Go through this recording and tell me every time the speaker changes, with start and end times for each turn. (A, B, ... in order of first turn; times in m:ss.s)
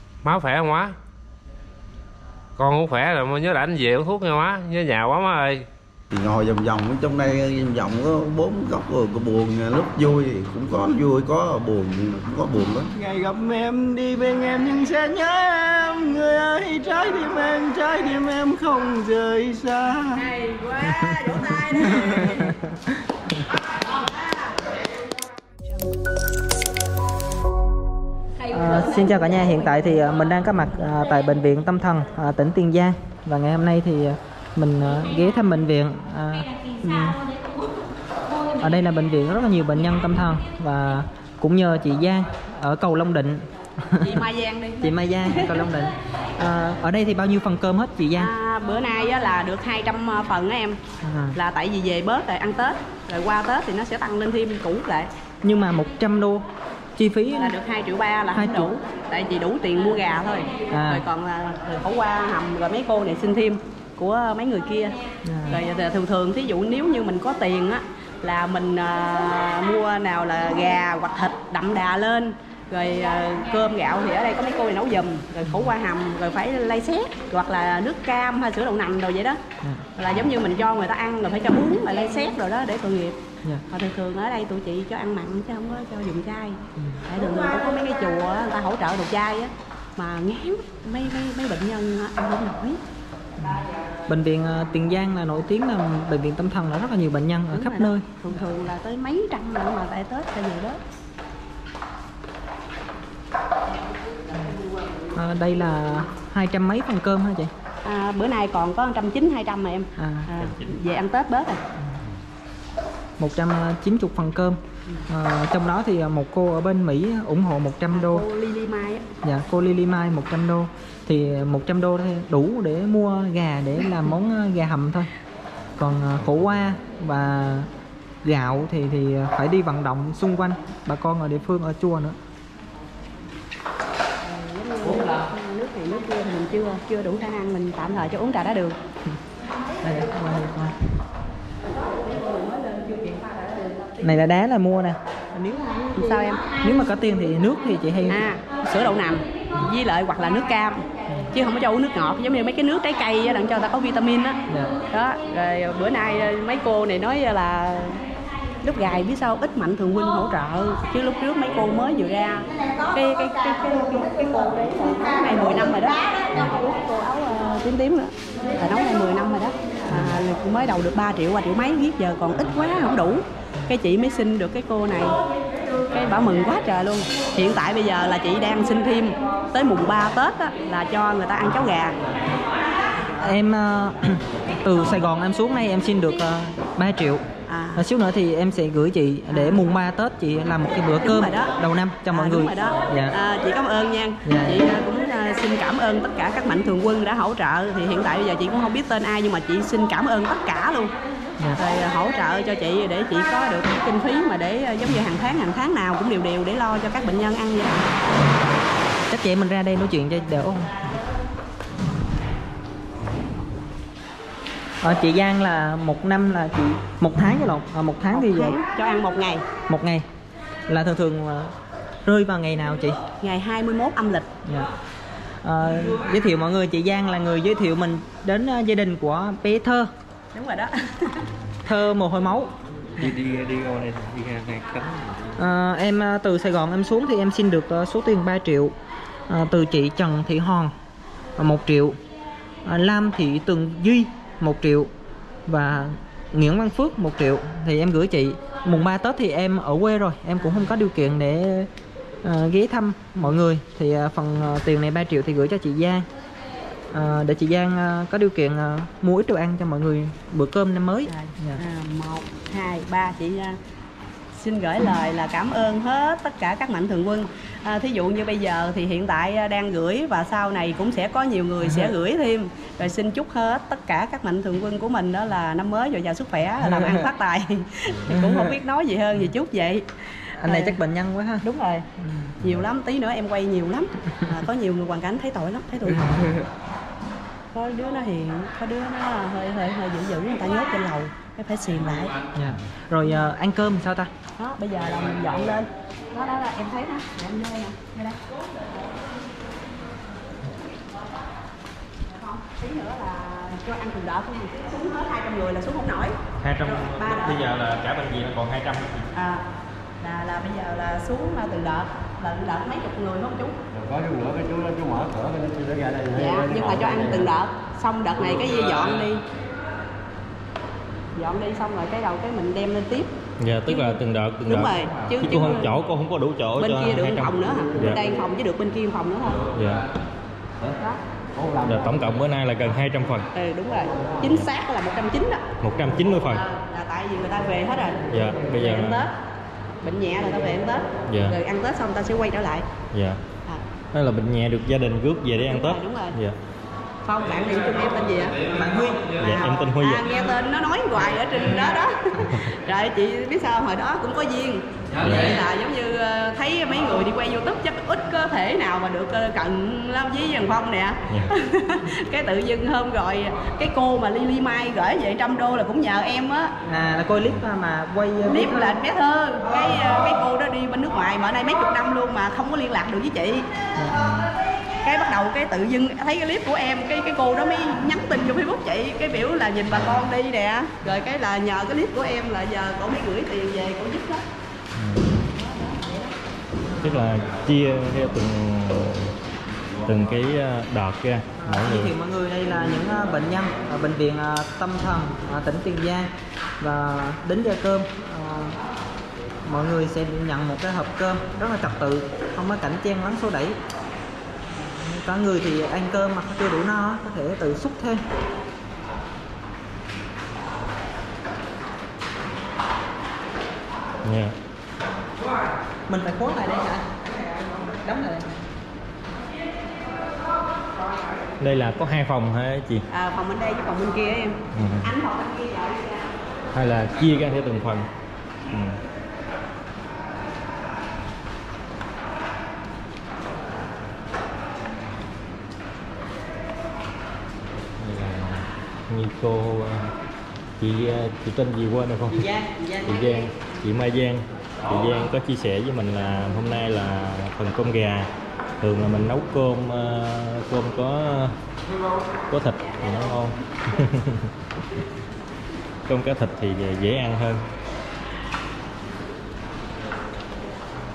0:00.2-0:01.0 A
0:02.6-0:05.7 A
0:06.1-0:12.9 B
0:13.0-0:20.2 C
0:20.1-0:22.6 D
0:24.0-0:24.3 D
0:28.4-0:30.5 D
0:28.5-0:37.2 E
0:38.6-0:44.2 E
0:44.0-0:45.6 D
0:44.8-0:48.3 E
0:48.2-0:50.8 D
0:51.0-0:51.4 E
0:51.3-0:55.1 D
0:55.4-0:56.4 E
0:57.0-0:57.6 E
0:57.3-1:19.4 D
0:58.3-0:58.7 E
1:00.7-1:01.0 E
1:05.3-1:05.6 E
1:15.4-1:15.7 E
1:19.9-1:23.2 D
1:23.7-1:32.8 D
1:34.1-1:38.0 E
1:37.5-1:40.8 D
1:45.1-1:47.5 E
1:47.8-1:51.6 D
1:50.0-1:50.3 E
1:50.4-1:50.7 F
1:53.2-1:58.2 E
1:57.9-1:59.0 D
1:59.2-2:05.1 E
2:05.8-2:07.7 E
2:08.2-2:12.2 E
2:14.2-2:18.8 D
2:19.8-2:20.8 E
2:21.8-2:24.0 D
2:24.0-2:25.0 E
2:25.3-2:26.4 D
2:26.6-2:28.2 E
2:28.1-2:38.0 D
2:34.5-2:34.7 E
2:38.6-2:55.2 D
2:49.9-2:50.2 E
2:55.9-3:02.0 D
3:03.1-3:07.2 E
3:07.5-3:07.8 D
3:07.7-3:13.1 E
3:09.3-3:09.6 D
3:11.0-3:11.5 D
3:12.1-3:20.9 D
3:14.2-3:14.6 E
3:21.6-3:27.9 D
3:29.1-3:30.7 E
3:34.8-3:38.6 E
3:38.1-3:39.5 D
3:39.6-3:40.0 E
3:40.7-3:41.5 E
3:42.0-3:43.0 E
3:43.2-3:44.3 D
3:45.4-3:49.9 E
3:50.3-3:51.2 D
3:51.6-3:52.5 E
3:53.0-3:55.3 F
3:55.4-3:58.7 E
3:59.3-4:00.7 E
4:01.4-4:02.0 E
4:02.6-4:04.9 E
4:05.4-4:11.7 E
4:12.2-4:16.0 E
4:16.9-4:21.6 E
4:21.1-4:23.6 D
4:24.3-4:39.8 D
4:38.1-4:38.4 E
4:40.4-4:41.4 E
4:40.4-4:40.8 D
4:41.4-4:41.8 D
4:42.4-4:46.4 D
4:47.5-4:52.2 D
4:52.3-4:54.1 E
4:54.4-4:58.2 D
5:02.1-5:07.4 D
5:06.4-5:09.0 F
5:09.1-5:09.4 D
5:10.0-5:13.5 D
5:13.7-5:17.3 C
5:16.1-5:19.2 D
5:21.1-5:23.1 D
5:23.4-5:28.0 F
5:23.7-5:25.7 D
5:26.6-5:29.4 D
5:29.5-5:29.8 F
5:30.7-5:31.0 D
5:31.6-5:33.2 F
5:33.3-5:35.4 D
5:35.6-5:36.4 F
5:36.2-5:38.0 D
5:38.1-5:39.0 F
5:38.5-5:39.1 D
5:39.8-5:42.6 D
5:41.1-5:41.3 F
5:42.9-5:43.2 F
5:43.9-5:46.4 F
5:45.5-5:46.2 D
5:47.0-5:48.4 D
5:48.5-5:49.1 E
5:49.2-5:50.1 F
5:49.2-6:06.5 D
5:55.0-5:55.4 F
6:06.6-6:08.8 E
6:08.2-6:13.5 D
6:14.0-6:14.3 F
6:14.8-6:24.2 D
6:24.7-6:25.2 F
6:25.4-6:26.1 D
6:26.8-6:29.1 F
6:29.8-6:31.9 F
6:31.4-6:36.1 E
6:36.6-6:38.6 E
6:39.4-6:43.6 E
6:44.8-6:48.0 E
6:54.0-6:54.3 F
6:55.9-6:56.8 E
6:57.8-6:58.3 E
7:01.4-7:02.8 F
7:02.9-7:06.1 D
7:04.5-7:04.9 F
7:06.5-7:07.9 F
7:08.5-7:08.8 F
7:17.8-7:19.9 F
7:20.6-7:22.3 F
7:22.1-7:23.3 E
7:22.8-7:28.1 F
7:28.6-7:31.3 F
7:32.3-7:34.3 F
7:35.9-7:37.4 F